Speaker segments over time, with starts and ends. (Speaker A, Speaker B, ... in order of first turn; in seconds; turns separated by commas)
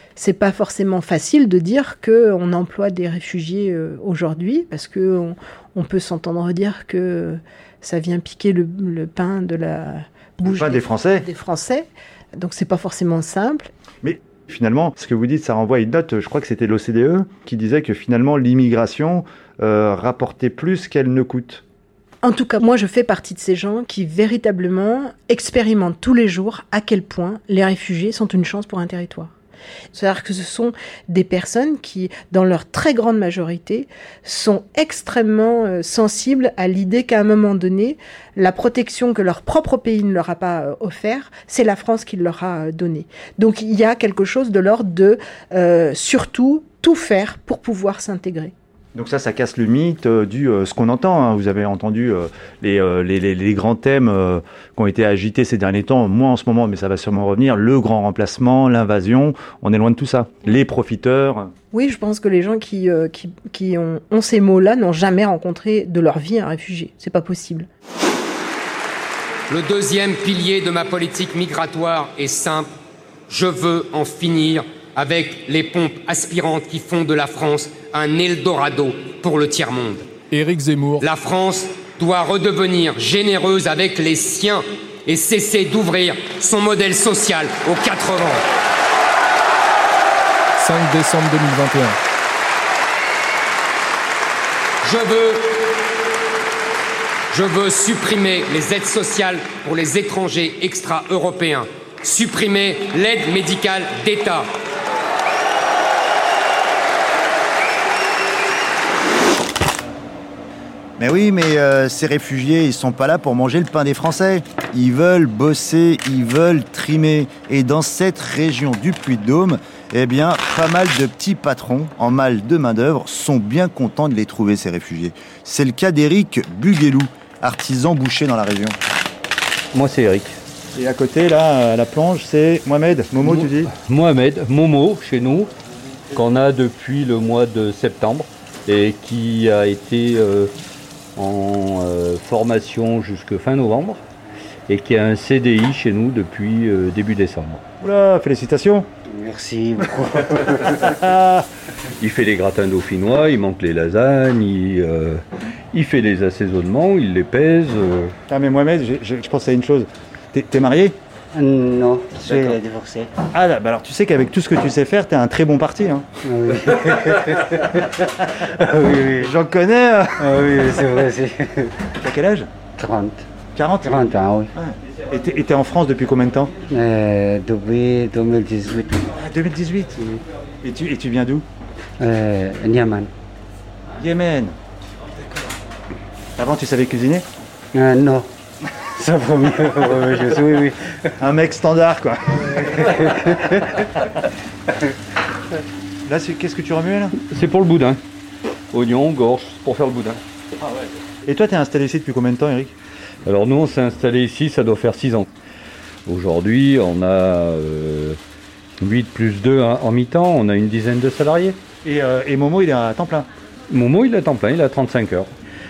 Speaker A: 0.1-13.7, Speaker B: 10.4-11.2, Speaker B: 14.0-21.6, Speaker A: 22.2-29.3, Speaker A: 29.9-48.5, Speaker B: 48.9-61.5, Speaker A: 61.7-67.7, Speaker C: 69.5-72.7, Speaker C: 73.3-80.1, Speaker D: 80.3-81.0, Speaker C: 81.0-88.4, Speaker D: 90.6-92.0, Speaker C: 94.8-95.5, Speaker C: 97.3-104.5, Speaker E: 111.0-128.8, Speaker F: 129.7-130.4, Speaker B: 130.7-133.7, Speaker F: 133.2-135.5, Speaker F: 136.1-140.5, Speaker F: 141.2-144.0, Speaker F: 144.7-147.6, Speaker B: 147.8-148.9, Speaker G: 149.1-150.9, Speaker B: 150.8-151.4, Speaker F: 152.0-158.1, Speaker B: 158.3-160.9, Speaker G: 161.3-163.1, Speaker B: 162.2-162.6, Speaker B: 163.3-166.0, Speaker G: 166.2-167.8, Speaker G: 168.4-169.3, Speaker B: 169.2-170.4, Speaker G: 170.2-171.7, Speaker B: 172.0-172.5, Speaker G: 172.8-173.3, Speaker B: 173.6-176.5, Speaker G: 173.8-174.5, Speaker G: 176.7-179.1, Speaker B: 179.1-180.0, Speaker B: 180.6-181.4, Speaker G: 182.0-183.1, Speaker B: 184.0-184.6, Speaker B: 186.4-187.2, Speaker G: 187.7-188.3, Speaker G: 189.0-191.0, Speaker B: 191.2-192.4, Speaker G: 193.0-193.5, Speaker B: 196.1-197.1, Speaker F: 197.3-198.0, Speaker F: 198.7-200.2, Speaker B: 200.6-202.7, Speaker F: 203.2-205.3, Speaker F: 206.1-208.2, Speaker F: 208.8-211.6, Speaker B: 211.8-213.3, Speaker F: 213.7-215.3